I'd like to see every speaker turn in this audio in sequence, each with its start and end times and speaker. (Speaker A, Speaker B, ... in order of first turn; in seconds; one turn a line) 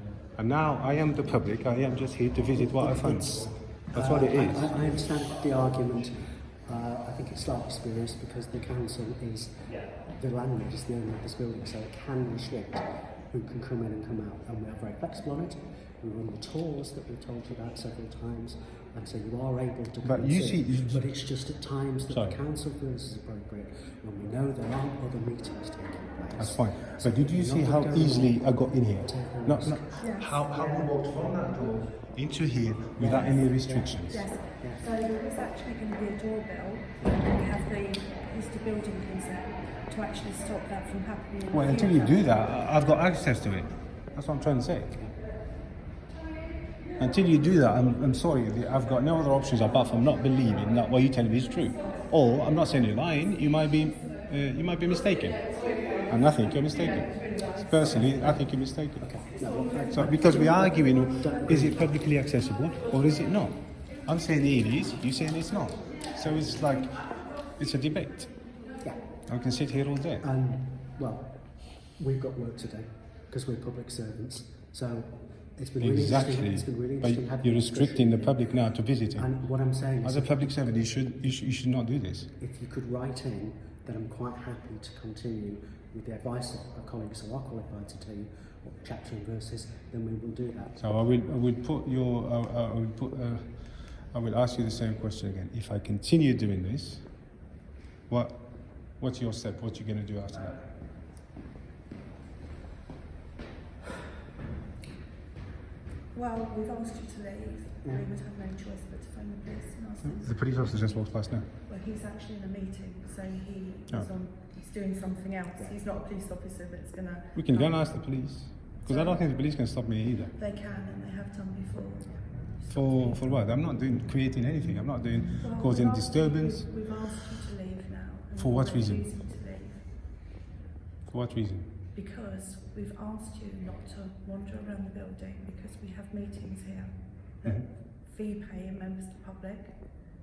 Speaker A: 0.3-4.7
Speaker B: 2.8-28.5
Speaker A: 20.0-21.1
Speaker A: 22.1-22.4
Speaker A: 26.4-34.2
Speaker B: 29.0-30.0
Speaker C: 30.0-30.3
Speaker B: 30.5-30.9
Speaker B: 33.0-33.9
Speaker C: 33.1-33.4
Speaker C: 34.1-42.4
Speaker A: 41.5-45.0
Speaker A: 47.0-55.4
Speaker A: 56.1-59.1
Speaker B: 57.8-58.4
Speaker B: 59.0-61.9
Speaker C: 59.4-61.3
Speaker A: 59.9-68.3
Speaker B: 66.2-66.7
Speaker A: 69.3-70.3
Speaker B: 70.2-71.4
Speaker B: 72.0-78.6
Speaker A: 75.8-79.3
Speaker B: 79.2-80.5
Speaker A: 80.0-82.3
Speaker B: 82.4-90.8
Speaker A: 90.8-97.0
Speaker A: 98.1-100.6
Speaker C: 106.1-118.0
Speaker A: 110.0-111.5
Speaker A: 117.3-120.3
Speaker C: 118.8-119.2
Speaker C: 120.3-123.2
Speaker A: 122.7-126.7
Speaker C: 125.4-129.8
Speaker A: 128.3-129.1
Speaker A: 131.1-131.7
Speaker C: 131.9-139.7